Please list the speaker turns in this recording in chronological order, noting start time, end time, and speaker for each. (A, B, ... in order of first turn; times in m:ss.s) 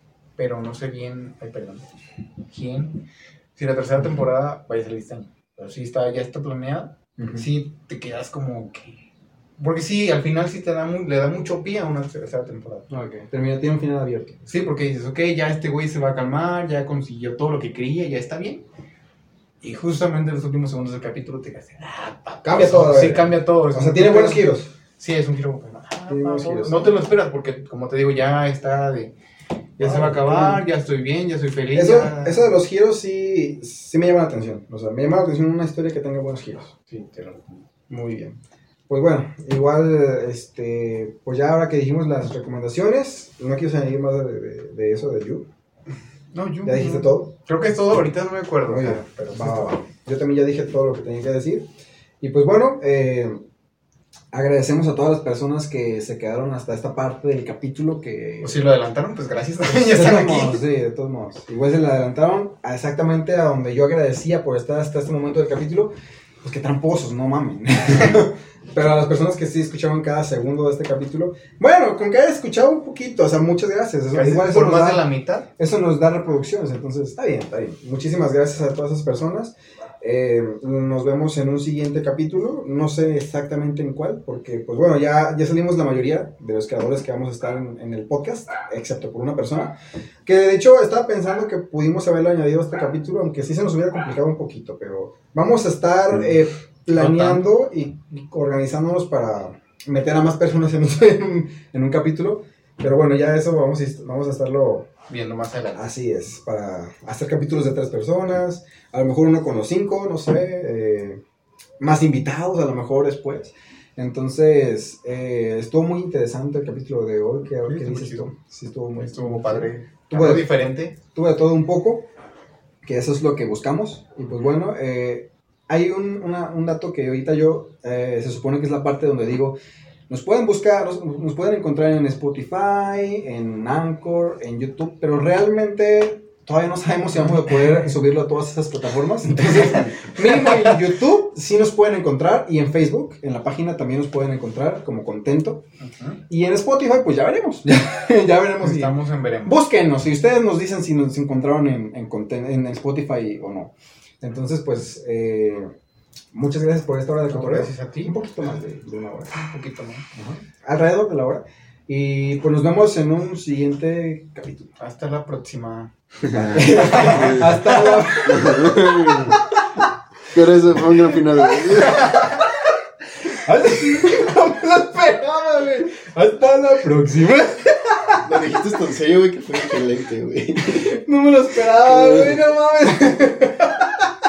0:00.4-0:01.9 A
0:02.5-0:03.0 A
0:03.6-0:09.0 A
0:07.2-0:07.5 B
0:09.6-0:12.9 A
0:12.9-0:14.4 B
0:14.5-0:18.6 A
0:19.6-0:29.1 A
0:22.4-0:24.7 B
0:26.1-0:26.9 B
0:29.8-0:32.6 A
0:29.8-0:30.6 B
0:31.7-0:36.7 B
0:36.9-0:37.6 A
0:37.9-0:38.4 B
0:38.9-0:45.5 B
0:46.3-0:49.8 A
0:46.6-0:47.3 B
0:48.7-0:51.7 B
0:52.2-0:53.4 B
0:54.3-0:58.6 B
0:58.4-1:00.6 A
0:59.7-1:15.0 B
1:14.1-1:15.5 A
1:15.6-1:44.9 B
1:36.9-1:37.4 A
1:45.1-1:45.8 A
1:45.7-1:51.2 B
1:51.8-2:00.5 B
1:57.6-1:58.3 A
1:59.0-2:01.0 A
2:01.0-2:02.1 B
2:02.8-2:09.6 B
2:10.1-2:25.6 B
2:19.4-2:20.6 A
2:25.8-2:26.2 A
2:26.3-2:35.7 B
2:28.6-2:29.6 A
2:36.3-2:39.3 B
2:37.3-2:38.5 A
2:39.3-2:40.0 A
2:40.1-2:44.7 B
2:44.8-2:48.1 A
2:46.3-2:49.4 B
2:46.6-2:49.4 C
2:50.3-2:52.3 C
2:51.8-2:52.4 B
2:53.3-2:58.2 B
2:58.2-3:01.0 C
3:00.7-3:04.1 B
3:01.8-3:02.4 C